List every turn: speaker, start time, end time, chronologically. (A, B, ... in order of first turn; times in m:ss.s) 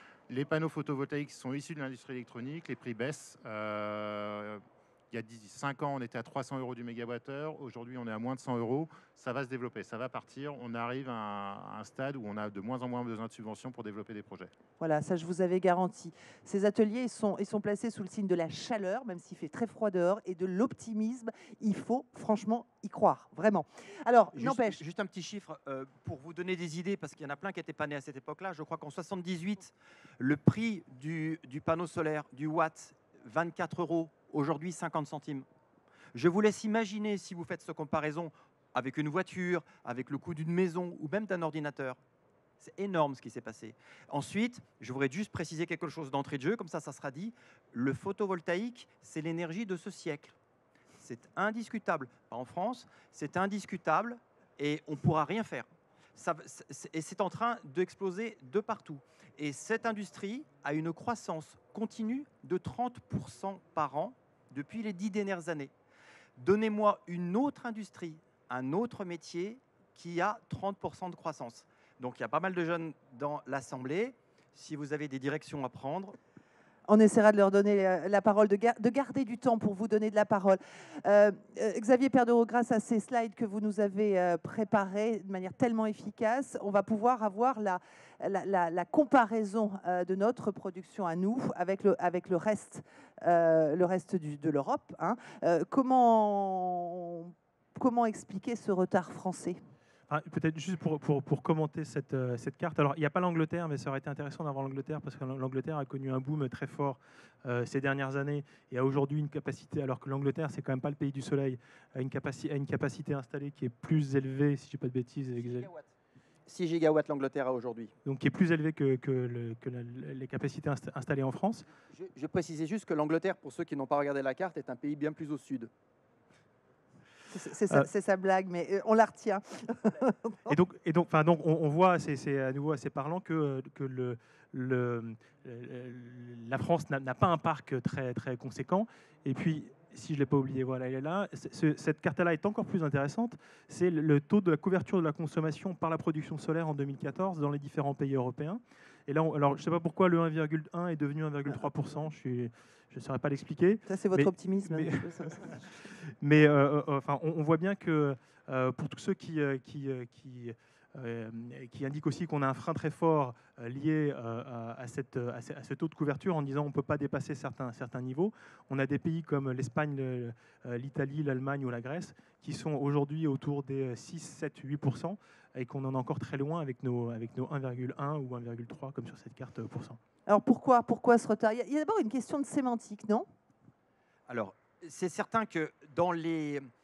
0:00.3-0:14.5 A
0:14.8-0:24.8 B
0:24.3-0:35.5 C
0:36.1-0:42.0 C
0:42.6-0:50.4 C
0:51.0-1:05.7 C
1:06.4-1:16.2 C
1:16.9-1:39.6 B
1:40.1-1:55.7 D
1:55.4-1:55.9 C
1:56.5-1:57.9 C
1:58.1-2:01.7 D
2:01.9-2:05.7 C
2:07.3-2:10.5 B
2:10.5-2:35.7 D
2:33.9-2:35.6 B
2:36.2-3:00.0 D
3:00.3-3:03.3 B
3:04.3-3:06.7 C